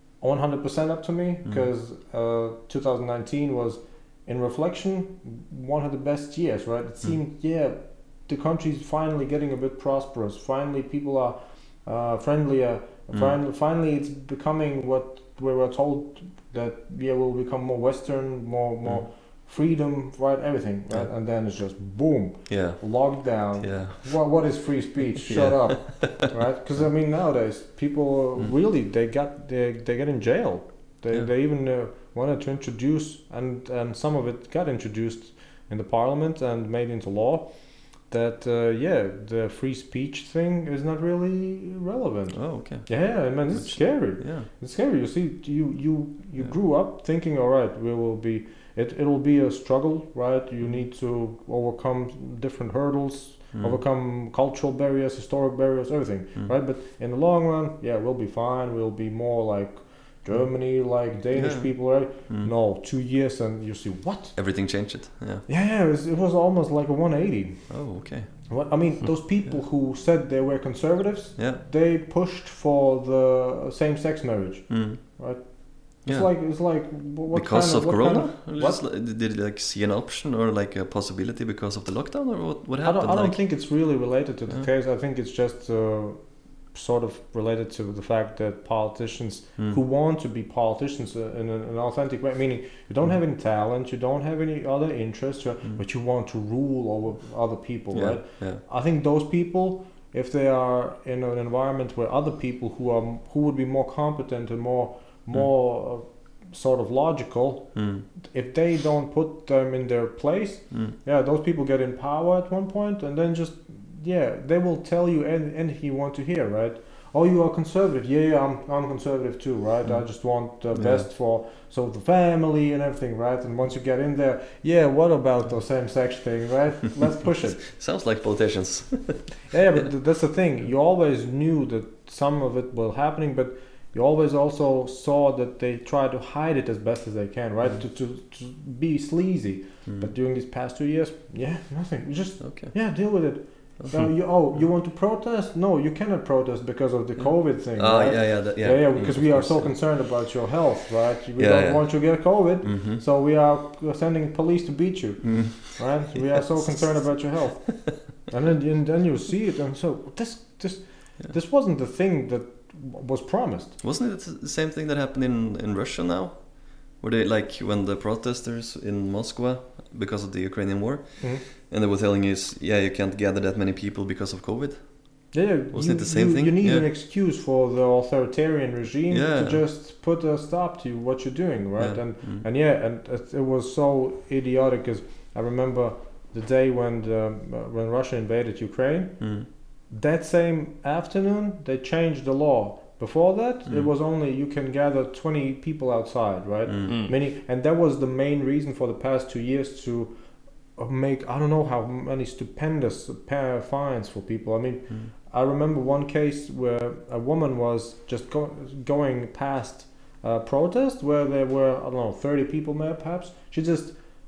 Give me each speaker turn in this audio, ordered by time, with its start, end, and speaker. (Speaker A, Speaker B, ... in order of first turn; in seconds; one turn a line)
Speaker A: 0.2-64.3
Speaker B: 22.5-22.8
Speaker B: 23.6-24.1
Speaker B: 25.2-26.2
Speaker B: 42.3-44.5
Speaker B: 53.5-53.8
Speaker B: 61.4-61.7
Speaker B: 64.3-65.4
Speaker A: 65.5-67.7
Speaker B: 67.7-68.3
Speaker A: 68.5-78.8
Speaker B: 74.7-75.0
Speaker B: 76.0-76.3
Speaker B: 77.3-83.4
Speaker A: 82.8-86.2
Speaker A: 86.7-127.6
Speaker B: 97.9-98.6
Speaker B: 107.7-108.0
Speaker B: 120.7-121.1
Speaker B: 127.6-129.4
Speaker A: 129.5-163.8
Speaker B: 142.4-142.7
Speaker B: 147.2-149.7
Speaker B: 151.4-153.0
Speaker B: 155.2-155.6
Speaker B: 163.8-176.9
Speaker A: 175.3-189.2
Speaker B: 179.1-179.6
Speaker B: 181.8-182.4
Speaker B: 189.2-189.5
Speaker A: 189.9-200.1
Speaker B: 196.7-196.9
Speaker A: 200.8-213.9